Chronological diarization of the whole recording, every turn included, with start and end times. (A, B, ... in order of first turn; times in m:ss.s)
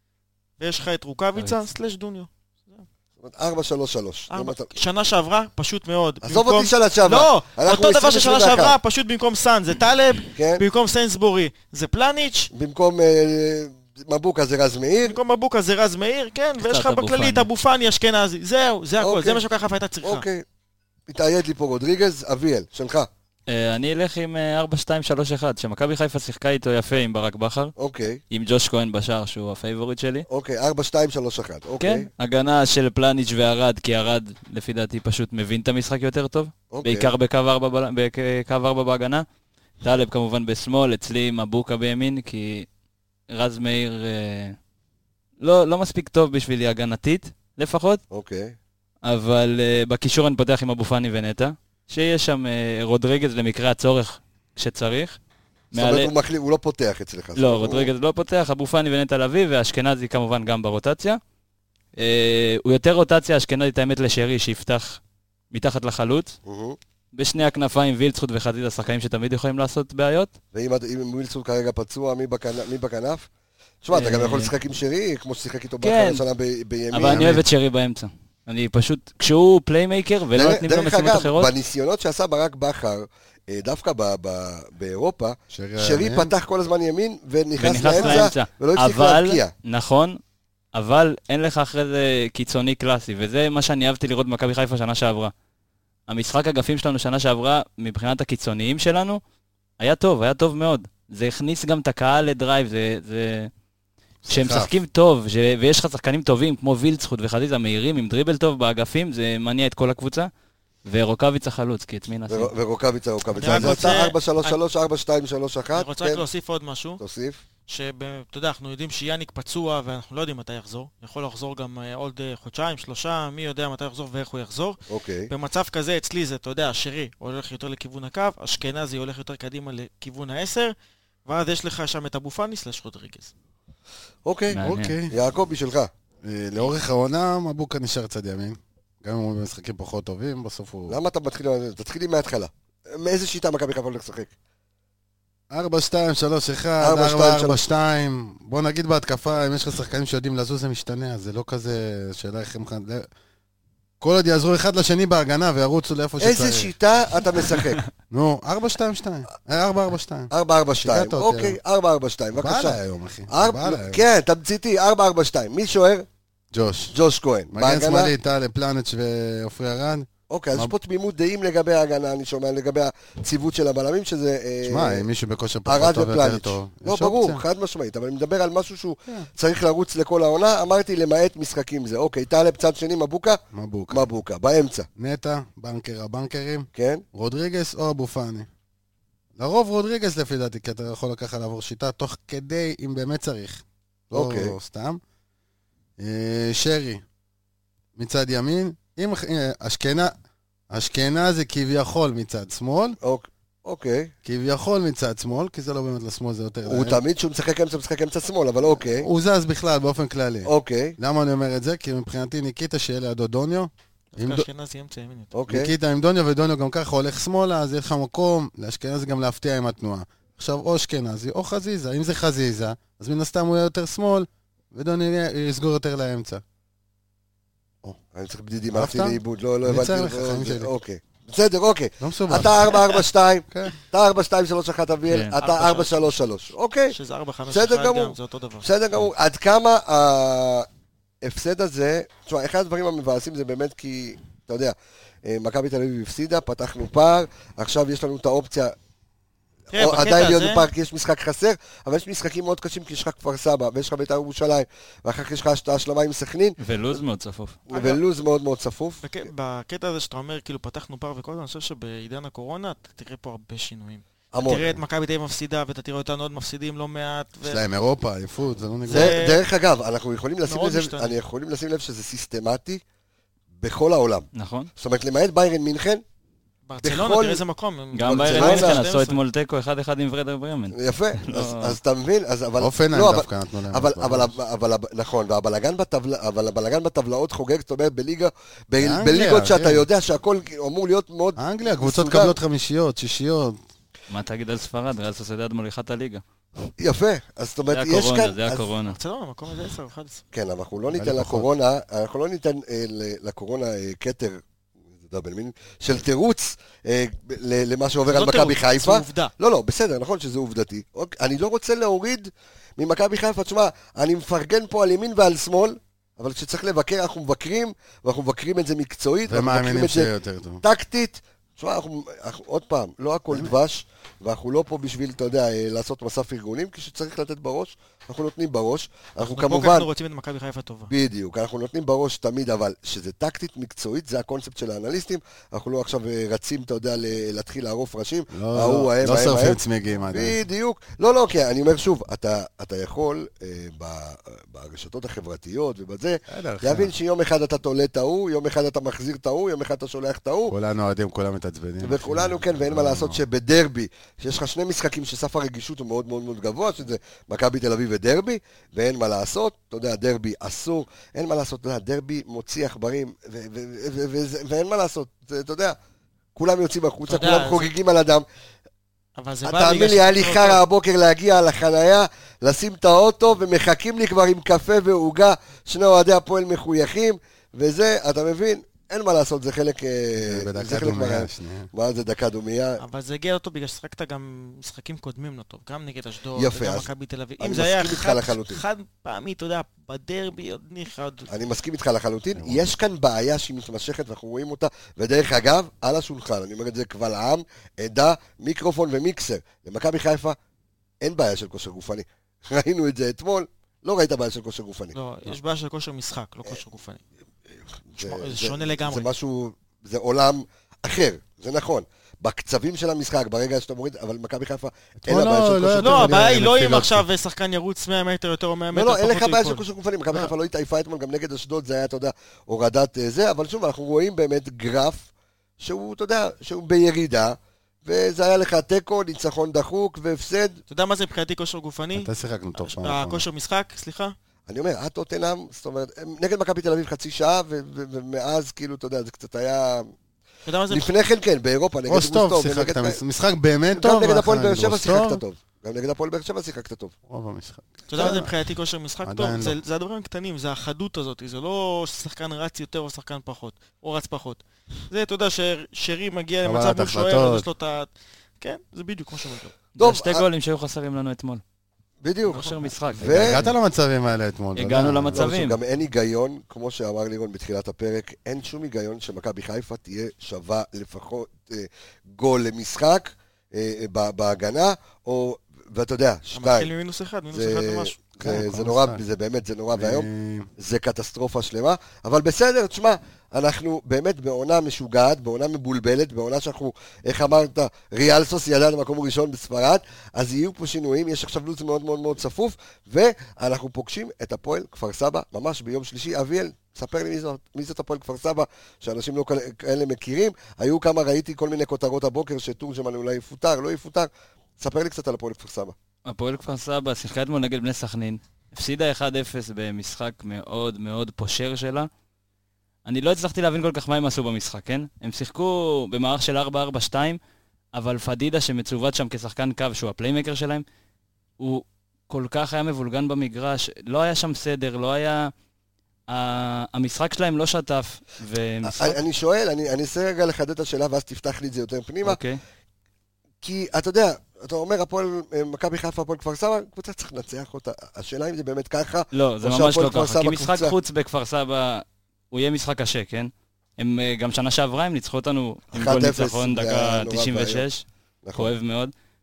0:00.6-0:02.8 A
0:01.4-0:01.6 B
0:03.2-0:04.7 C
0:04.3-0:12.5 A
0:06.2-0:08.8 C
0:10.3-0:10.6 C
0:12.5-0:15.2 C
0:15.0-0:20.2 A
0:16.6-0:17.5 B
0:19.0-0:19.4 C
0:20.0-0:20.4 C
0:21.1-0:23.1 C
0:23.5-0:27.7 B
0:27.8-0:28.2 C
0:28.3-0:30.2 B
0:30.3-0:32.1 C
0:31.8-0:39.2 B
0:36.7-0:37.1 C
0:39.8-0:42.7 B
0:43.3-0:44.6 B
0:45.4-0:48.0 B
0:48.1-0:48.6 C
0:49.0-0:55.2 B
0:55.7-0:56.1 B
0:55.7-0:57.9 C
0:57.4-1:01.2 B
1:02.0-1:05.0 B
1:05.5-1:06.3 B
1:06.4-1:06.8 C
1:07.1-1:10.3 B
1:10.5-1:13.2 C
1:13.8-1:17.4 C
1:13.9-1:14.5 B
1:15.8-1:16.2 B
1:16.9-1:21.5 B
1:17.0-1:17.4 D
1:20.3-1:29.5 C
1:25.5-1:26.3 D
1:27.6-1:30.2 B
1:27.7-1:28.3 D
1:30.7-1:35.3 B
1:36.1-1:39.2 B
1:39.8-1:43.5 B
1:44.2-1:44.7 D
1:44.3-1:50.3 B
1:50.8-1:52.5 B
1:52.3-1:56.2 C
1:53.4-1:54.6 A
1:55.7-1:57.0 A
1:57.0-1:57.4 C
1:57.7-2:04.8 A
2:04.9-2:05.3 C
2:05.3-2:10.7 A
2:11.2-2:13.3 A
2:14.2-2:14.6 C
2:14.5-2:14.9 B
2:14.6-2:15.1 D
2:15.1-2:15.9 C
2:16.2-2:21.0 D
2:20.9-2:24.3 C
2:25.5-2:33.1 D
2:26.8-2:27.6 C
2:34.0-2:36.7 D
2:36.2-2:37.8 C
2:38.1-2:41.6 D
2:40.3-2:46.0 C
2:42.4-2:44.0 D
2:46.5-2:46.9 D
2:46.9-2:48.1 C
2:47.5-2:50.7 D
2:50.3-2:55.0 C
2:54.6-2:57.4 D
2:55.6-3:03.4 C
3:03.5-3:04.0 D
3:03.9-3:04.9 C
3:05.0-3:08.5 D
3:06.7-3:07.0 C
3:09.4-3:15.0 D
3:14.1-3:14.6 C
3:16.0-3:17.0 D
3:18.0-3:20.1 D
3:20.7-3:23.0 D
3:23.0-3:24.1 C
3:24.2-3:27.0 D
3:26.6-3:29.1 C
3:29.0-3:34.5 D
3:30.4-3:31.0 C
3:34.1-3:35.3 A
3:35.3-3:35.7 C
3:35.5-3:46.4 D
3:48.1-3:57.0 C
3:48.7-3:50.7 D
3:52.0-3:52.7 D
3:55.1-3:55.3 B
3:55.4-3:56.2 A
3:56.9-3:58.7 A
3:57.5-4:00.7 C
4:01.2-4:08.7 C
4:09.7-4:10.7 A
4:09.7-4:16.6 C
4:16.6-4:17.6 B
4:17.7-4:19.1 C
4:17.7-4:18.0 A
4:19.0-4:27.6 A
4:24.3-4:24.8 C
4:27.4-4:29.2 D
4:28.8-4:29.4 A
4:28.9-4:32.8 C
4:30.4-4:31.2 A
4:33.6-4:36.0 C
4:34.3-4:34.7 B
4:36.7-4:39.2 A
4:36.8-4:37.4 C
4:37.9-4:41.8 B
4:38.0-4:38.8 C
4:40.7-4:52.4 C
4:42.6-4:44.3 D
4:48.8-4:49.8 D
4:51.4-4:53.6 D
4:54.1-4:56.2 B
4:56.8-4:58.6 C
4:57.7-4:59.0 B
4:58.8-5:00.2 A
5:00.3-5:04.4 C
5:00.9-5:01.5 D
5:05.0-5:20.1 C
5:08.1-5:09.3 A
5:19.3-5:20.6 D
5:20.6-5:29.9 C
5:29.2-5:30.9 A
5:30.9-5:39.6 C
5:38.3-5:40.4 D
5:40.1-5:50.5 C
5:46.3-5:46.9 D
5:50.5-5:53.2 D
5:51.8-6:05.8 C
6:06.4-6:08.2 C
6:07.1-6:07.7 A
6:09.2-6:10.6 A
6:09.4-6:22.8 C
6:20.2-6:21.7 D
6:22.8-6:31.3 A
6:26.3-6:26.9 C
6:27.4-6:28.6 C
6:31.3-6:40.4 C
6:32.4-6:32.7 D
6:41.0-6:45.0 C
6:44.9-6:47.0 A
6:47.9-6:56.3 C
6:48.0-6:49.1 A
6:55.0-6:57.0 D
6:55.8-6:59.6 A
6:58.7-7:05.1 C
7:05.6-7:10.6 C
7:10.7-7:14.1 A
7:11.9-7:13.2 D
7:14.5-7:19.9 C
7:20.4-7:20.9 A
7:20.7-7:23.0 C
7:21.9-7:25.2 D
7:23.7-7:26.9 C
7:27.1-7:28.3 D
7:27.9-7:39.6 A
7:29.0-7:29.6 D
7:36.4-7:37.5 D
7:39.8-7:41.4 B
7:39.8-7:40.2 C
7:42.0-7:43.4 C
7:42.3-7:43.5 B
7:42.3-7:42.9 A
7:43.0-7:45.3 D
7:44.6-7:45.6 B
7:45.1-7:56.7 C
7:56.3-7:58.0 A
7:57.3-8:25.7 C
7:58.2-7:59.0 D
7:59.7-8:00.5 D
8:26.0-8:31.9 B
8:32.8-8:37.2 B
8:37.7-8:40.6 B
8:41.4-8:45.3 B
8:46.1-8:49.0 B
8:48.6-8:52.2 C
8:52.0-8:52.4 B
8:53.4-9:00.7 C
8:59.1-9:07.8 B
9:05.7-9:07.6 C
9:08.2-9:08.5 C
9:08.4-9:08.9 B